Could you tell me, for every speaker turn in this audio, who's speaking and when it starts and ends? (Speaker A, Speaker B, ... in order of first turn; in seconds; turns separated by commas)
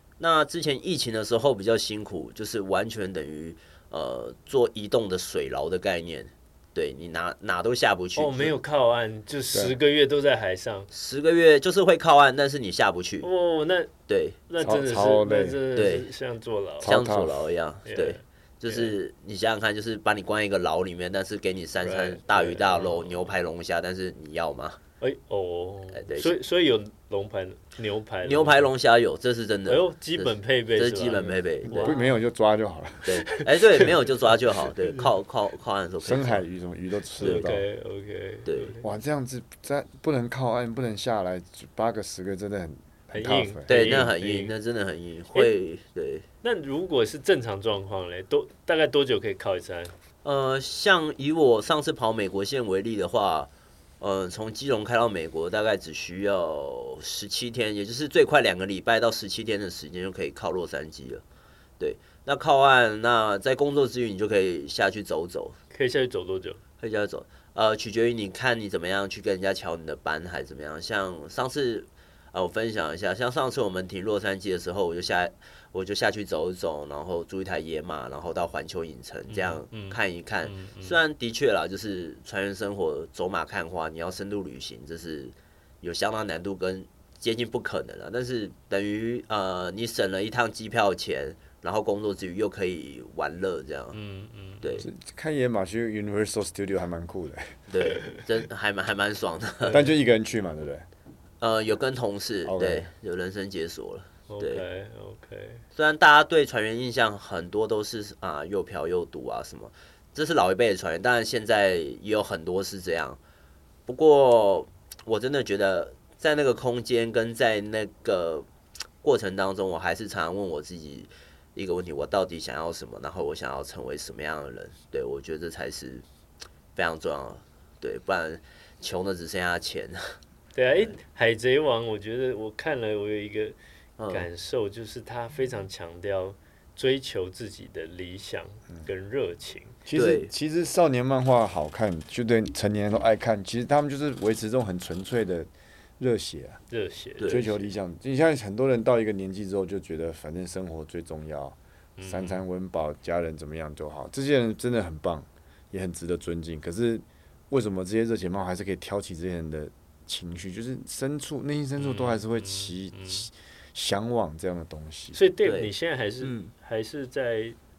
Speaker A: 0.2-8.6, Speaker B: 8.2-10.9, Speaker A: 10.9-13.3, Speaker B: 13.2-13.9, Speaker A: 14.1-14.4, Speaker B: 14.5-17.0, Speaker C: 14.6-15.6, Speaker A: 15.7-16.1, Speaker C: 16.8-17.4, Speaker A: 16.8-24.8, Speaker B: 17.8-18.9, Speaker B: 21.8-23.4, Speaker B: 25.0-28.7, Speaker A: 25.9-26.4, Speaker A: 28.2-31.9, Speaker B: 29.7-32.1, Speaker C: 31.7-33.1, Speaker A: 33.0-36.4, Speaker B: 33.3-33.9, Speaker B: 34.7-35.1, Speaker C: 36.0-37.6, Speaker B: 37.2-38.9, Speaker A: 37.2-37.4, Speaker A: 38.4-38.7, Speaker C: 38.8-44.1, Speaker B: 43.1-44.5, Speaker A: 43.7-46.2, Speaker B: 46.4-49.9, Speaker A: 50.2-61.2, Speaker A: 61.8-65.6, Speaker B: 65.7-66.6, Speaker A: 66.8-94.0, Speaker B: 79.3-81.0, Speaker B: 93.9-94.8, Speaker A: 94.6-94.9, Speaker C: 94.8-97.6, Speaker A: 97.7-99.8, Speaker C: 99.7-100.9, Speaker A: 101.4-104.6, Speaker C: 102.4-102.9, Speaker B: 104.3-105.6, Speaker A: 105.7-113.2, Speaker A: 113.9-118.5, Speaker A: 119.0-126.0, Speaker A: 126.8-130.2, Speaker B: 130.5-133.6, Speaker A: 134.0-134.3, Speaker B: 134.1-139.8, Speaker C: 139.8-146.6, Speaker A: 139.9-140.3, Speaker B: 146.7-147.7, Speaker C: 147.3-165.2, Speaker B: 152.0-152.4, Speaker B: 161.8-163.3, Speaker B: 165.1-167.6, Speaker A: 165.4-166.5